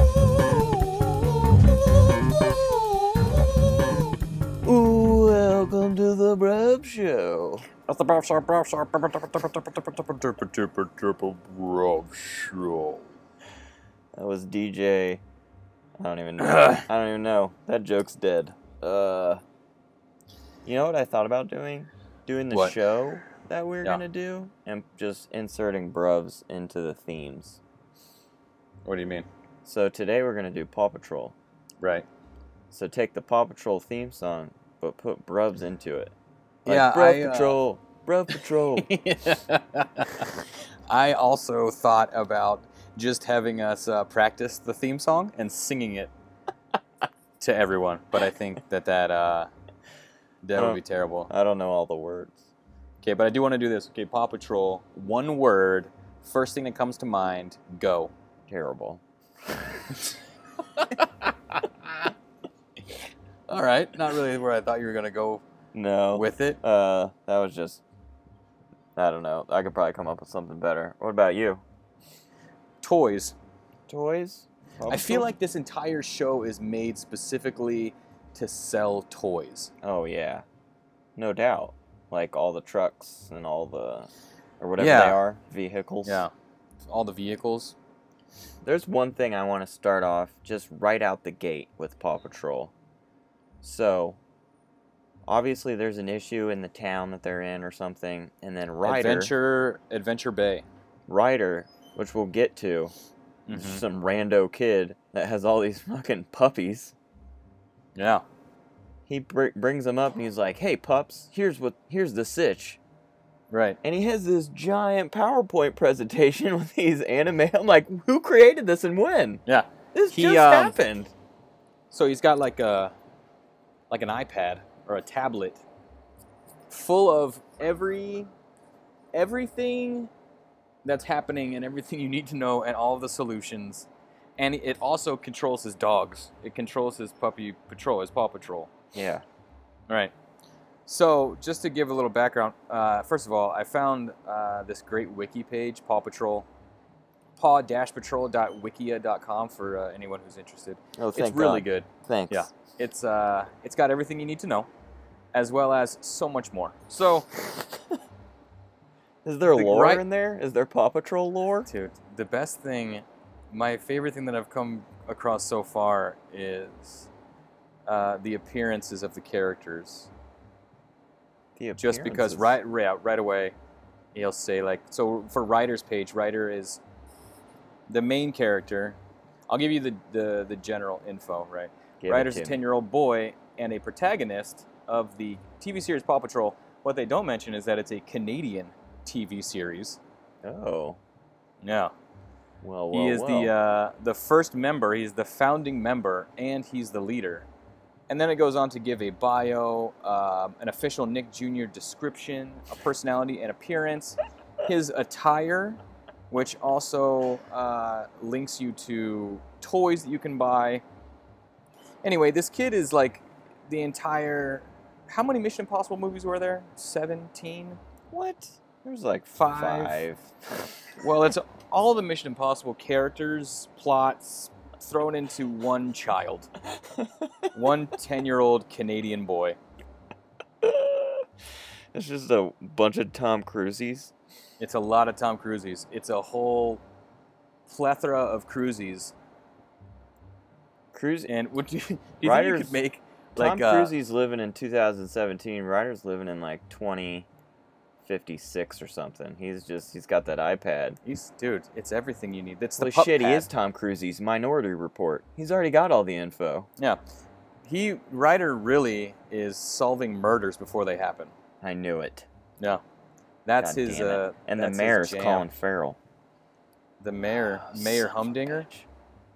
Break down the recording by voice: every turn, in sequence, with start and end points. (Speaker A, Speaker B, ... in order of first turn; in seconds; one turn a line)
Speaker A: 0.3-1.5
Speaker A: 2.3-3.9
Speaker A: 4.6-7.7
Speaker B: 7.9-13.1
Speaker A: 14.1-15.2
Speaker A: 16.0-19.4
Speaker B: 16.4-16.8
Speaker A: 20.6-27.6
Speaker B: 28.8-29.3
Speaker A: 29.6-31.3
Speaker B: 31.8-32.0
Speaker A: 32.7-36.1
Speaker A: 36.6-38.9
Speaker B: 36.6-37.6
Speaker B: 38.8-46.1
Speaker B: 47.4-49.5
Speaker B: 50.4-51.3
Speaker A: 50.6-52.4
Speaker B: 53.0-58.1
Speaker A: 58.5-59.0
Speaker B: 60.7-62.1
Speaker B: 63.5-65.4
Speaker A: 65.7-67.8
Speaker B: 66.1-66.6
Speaker A: 69.0-71.6
Speaker B: 72.8-73.3
Speaker A: 73.9-75.3
Speaker B: 74.9-79.7
Speaker A: 79.8-80.4
Speaker A: 81.2-84.1
Speaker A: 84.6-86.3
Speaker B: 84.8-85.2
Speaker B: 86.0-86.3
Speaker B: 86.8-87.8
Speaker A: 88.6-92.7
Speaker A: 93.6-94.2
Speaker A: 95.2-99.3
Speaker B: 98.8-100.6
Speaker A: 101.1-102.9
Speaker B: 103.5-103.8
Speaker A: 103.5-106.9
Speaker B: 108.0-108.2
Speaker A: 109.1-112.8
Speaker B: 113.5-113.8
Speaker A: 113.8-119.4
Speaker B: 119.5-120.8
Speaker A: 119.9-121.1
Speaker B: 121.9-122.9
Speaker B: 123.9-125.6
Speaker B: 126.7-128.3
Speaker B: 129.1-130.1
Speaker B: 130.8-133.9
Speaker B: 134.4-138.7
Speaker A: 138.9-139.2
Speaker B: 140.8-146.5
Speaker B: 147.4-154.7
Speaker A: 151.0-152.5
Speaker B: 155.3-157.3
Speaker A: 157.5-157.8
Speaker A: 159.2-161.7
Speaker B: 159.5-160.0
Speaker B: 161.7-167.1
Speaker B: 167.9-170.1
Speaker A: 171.6-172.6
Speaker B: 171.8-173.5
Speaker B: 174.1-176.8
Speaker B: 177.9-179.0
Speaker B: 179.5-190.0
Speaker A: 182.0-182.6
Speaker A: 190.4-191.0
Speaker B: 191.6-191.9
Speaker A: 192.6-193.5
Speaker B: 192.9-197.5
Speaker B: 198.1-205.8
Speaker B: 206.3-210.8
Speaker B: 212.0-217.8
Speaker A: 218.1-220.7
Speaker B: 219.3-220.0
Speaker B: 221.0-226.5
Speaker A: 226.8-227.5
Speaker B: 227.5-229.6
Speaker A: 230.6-231.3
Speaker A: 231.9-234.1
Speaker B: 234.6-236.8
Speaker B: 237.7-239.1
Speaker A: 240.9-241.3
Speaker B: 241.3-243.9
Speaker A: 242.2-242.8
Speaker A: 243.3-247.3
Speaker A: 248.0-251.0
Speaker B: 251.0-253.5
Speaker A: 252.8-256.7
Speaker B: 257.6-261.3
Speaker A: 261.6-262.3
Speaker B: 263.4-265.5
Speaker A: 263.6-266.0
Speaker B: 267.0-268.7
Speaker A: 267.6-268.9